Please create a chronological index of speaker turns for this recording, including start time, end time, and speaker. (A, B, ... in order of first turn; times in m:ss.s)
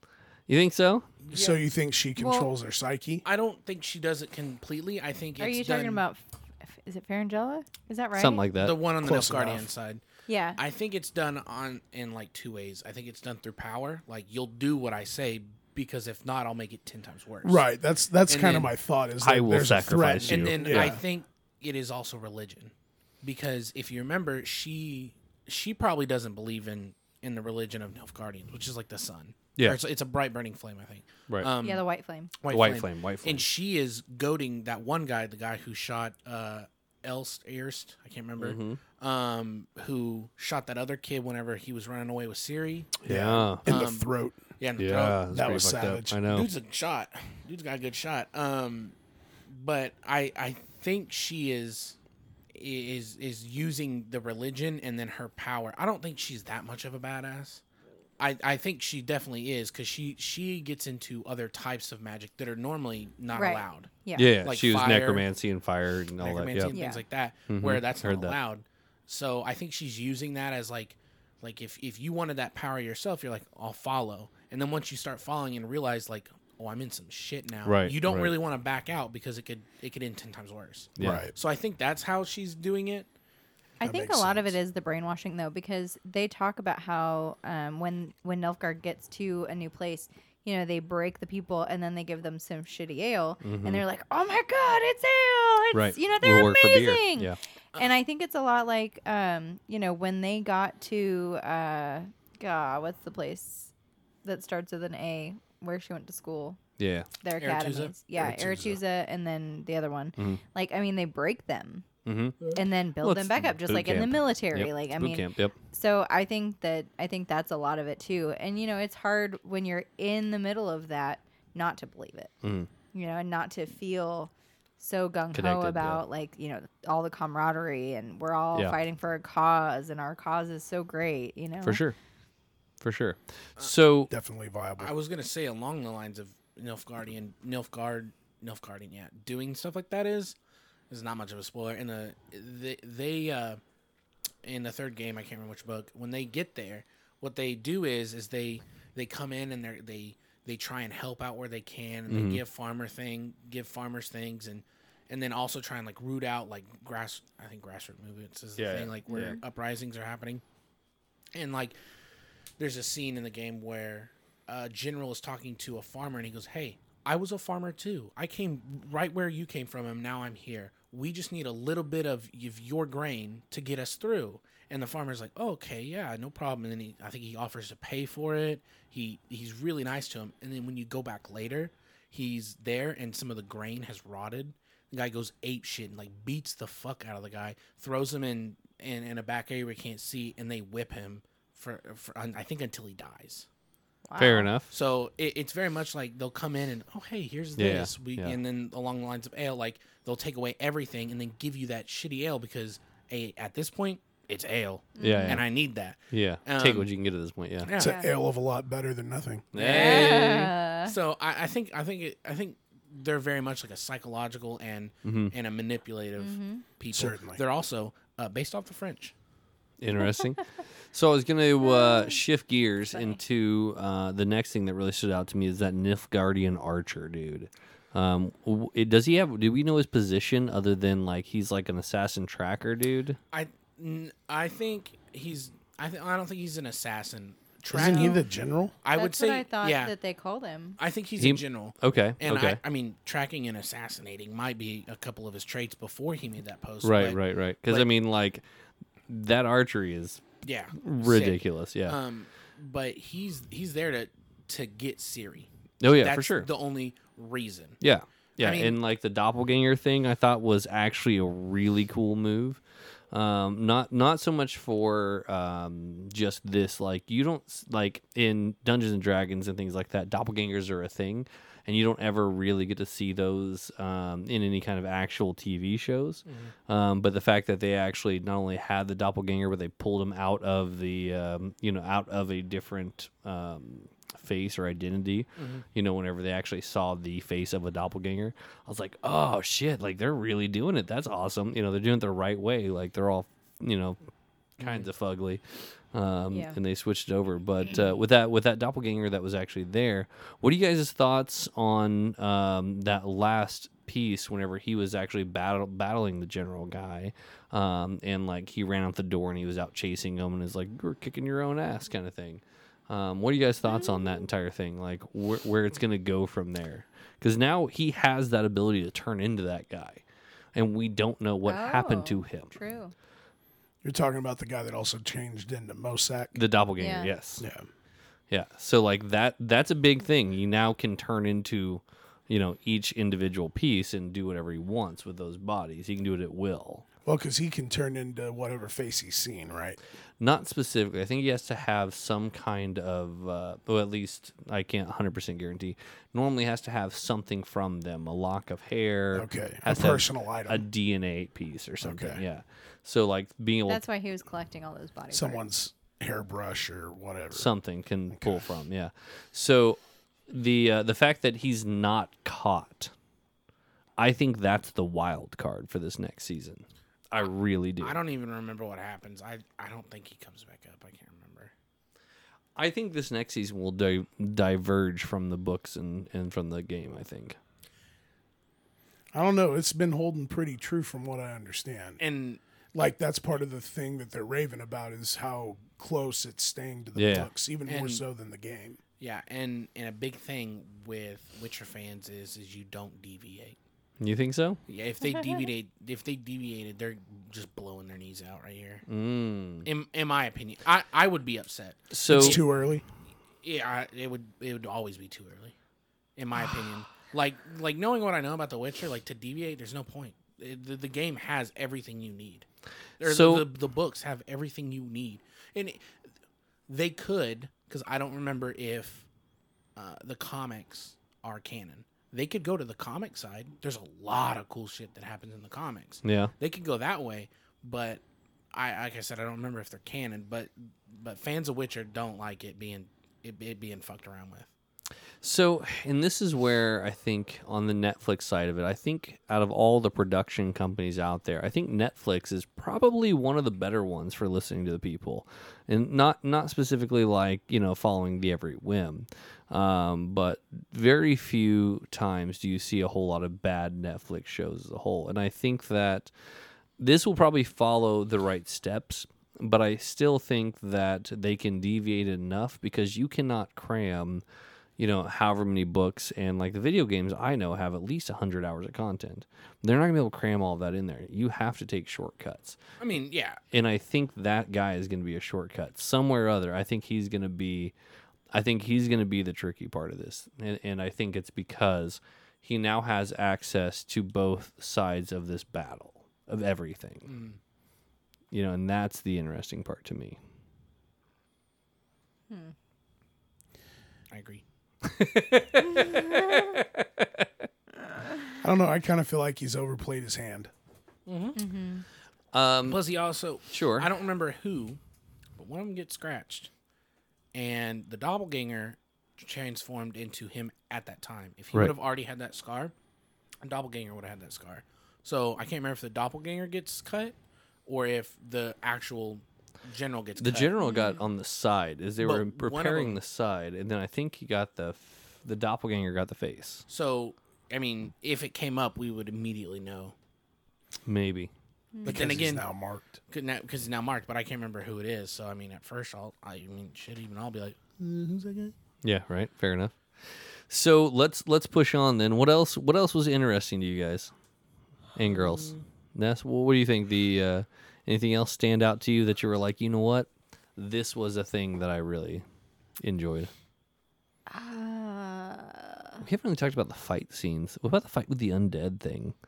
0:00.5-0:01.1 A
0:01.2-0:01.6 B
0:01.3-0:03.2 C
0:02.2-0:02.5 D
0:03.2-0:06.0 B
0:05.4-0:08.4 D
0:08.2-0:08.8 A
0:08.6-0:10.0 B
0:09.0-0:09.7 C
0:10.3-0:10.6 D
0:10.6-0:17.6 B
0:17.4-0:21.0 C
0:18.3-0:18.7 B
0:19.2-0:21.0 A
0:20.3-0:31.8 B
0:31.6-0:32.3 D
0:32.4-0:42.9 B
0:32.5-0:33.4 A
0:38.4-0:38.8 A
0:43.0-0:43.7 A
0:43.1-0:44.4 C
0:43.7-0:45.2 B
0:44.8-0:46.5 A
0:45.3-0:46.2 C
0:46.3-0:49.0 B
0:49.5-0:52.0 B
0:52.5-0:57.6 B
0:58.2-1:03.9 B
1:03.3-1:04.4 D
1:04.2-1:06.8 A
1:04.4-1:05.3 B
1:06.2-1:23.1 B
1:06.7-1:07.0 D
1:07.5-1:08.4 A
1:17.7-1:18.3 A
1:21.0-1:21.3 A
1:21.0-1:21.3 C
1:23.8-1:24.6 C
1:23.8-1:43.7 D
1:33.4-1:33.8 A
1:35.7-1:37.4 A
1:44.2-1:46.6 D
1:46.8-1:47.1 A
1:47.2-1:51.9 D
1:47.4-1:48.8 B
1:52.1-1:52.4 A
1:52.6-2:02.3 D
1:53.0-1:55.6 A
2:02.4-2:02.7 A
2:02.9-2:11.8 D
2:05.3-2:06.0 A
2:11.6-2:12.0 A
2:12.8-2:14.1 A
2:14.1-2:14.9 C
2:14.8-2:20.4 B
2:20.9-2:23.6 B
2:24.4-2:40.4 B
2:32.1-2:32.4 A
2:38.6-2:39.4 A
2:39.1-2:39.4 D
2:41.3-2:41.8 B
2:42.6-3:13.5 B
3:14.1-3:14.5 D
3:14.2-3:14.7 A
3:14.7-3:26.9 B
3:17.6-3:18.4 A
3:25.0-3:25.4 D
3:25.0-3:25.5 A
3:26.1-3:27.7 A
3:27.6-3:28.0 B
3:27.8-3:28.1 D
3:27.8-3:29.5 C
3:29.5-3:30.5 A
3:29.6-3:39.1 B
3:29.7-3:31.0 D
3:35.0-3:35.3 A
3:36.2-3:36.6 D
3:36.9-3:37.4 C
3:39.8-3:53.2 A
3:41.6-3:42.2 D
3:42.9-3:43.2 D
3:53.3-3:58.2 B
3:57.7-3:58.8 C
3:57.8-3:58.2 D
3:58.8-3:59.9 B
3:58.9-4:00.8 D
4:00.8-4:07.9 B
4:01.2-4:02.6 A
4:06.8-4:08.4 A
4:09.1-4:10.2 A
4:10.4-4:17.8 B
4:10.8-4:12.0 A
4:15.8-4:16.5 A
4:17.8-4:22.6 A
4:18.4-4:18.8 B
4:23.1-4:54.0 A
4:36.3-4:36.5 B
4:45.4-4:45.6 B
4:54.6-4:54.9 B
4:54.6-4:55.4 A
4:55.9-5:20.0 A
4:56.3-4:56.6 D
5:13.7-5:14.2 D
5:20.6-5:22.6 A
5:21.5-5:22.9 D
5:23.8-5:26.4 C
5:26.4-5:27.4 A
5:26.8-5:27.1 D
5:27.4-5:27.7 C
5:28.3-5:36.8 A
5:37.0-5:39.8 C
5:40.2-5:53.8 A
5:49.1-5:50.6 C
5:51.8-5:52.2 C
5:53.7-5:55.4 D
5:55.1-5:57.5 C
5:57.3-5:59.8 A
5:58.1-5:58.4 C
6:00.3-6:02.9 A
6:04.0-6:08.0 A
6:07.8-6:11.5 B
6:12.6-6:17.4 A
6:19.1-6:22.0 C
6:22.0-6:22.4 B
6:22.7-6:28.8 C
6:27.0-6:27.3 A
6:27.7-6:28.0 B
6:29.0-6:33.6 B
6:34.0-6:34.6 A
6:34.7-6:38.8 B
6:38.9-6:39.7 A
6:39.6-6:42.4 B
6:41.9-6:42.4 A
6:42.1-6:42.8 C
6:43.4-6:45.5 B
6:46.2-6:52.5 B
6:53.0-6:55.9 B
6:53.0-6:53.5 A
6:56.7-6:59.1 B
6:59.8-7:08.0 B
7:06.0-7:06.3 A
7:08.5-7:14.5 B
7:15.2-7:36.1 A
7:36.8-7:44.2 A
7:44.8-7:52.6 A
7:52.8-7:53.4 B
7:53.5-7:57.7 A
7:58.3-8:07.1 A
8:07.0-8:07.4 B
8:08.3-8:10.2 A
8:14.1-8:14.4 B
8:14.8-8:17.2 A
8:15.8-8:16.3 D
8:18.4-8:20.5 C
8:21.1-8:21.4 B
8:21.4-8:21.8 D
8:22.3-8:22.8 A
8:22.7-8:24.8 B
8:23.5-8:23.9 A
8:25.4-8:26.5 B
8:27.3-8:32.7 B
8:33.4-8:40.5 B
8:40.2-8:46.6 A
8:40.6-8:41.0 D
8:42.0-8:43.0 B
8:46.7-8:50.0 B
8:50.9-8:51.3 A
8:51.7-8:52.2 D
8:51.8-8:52.5 B
8:51.8-8:53.0 C
8:53.1-8:58.5 B
8:58.8-9:04.1 A
9:05.0-9:12.2 A
9:12.8-9:13.3 A
9:14.3-9:16.0 D
9:16.0-9:19.2 A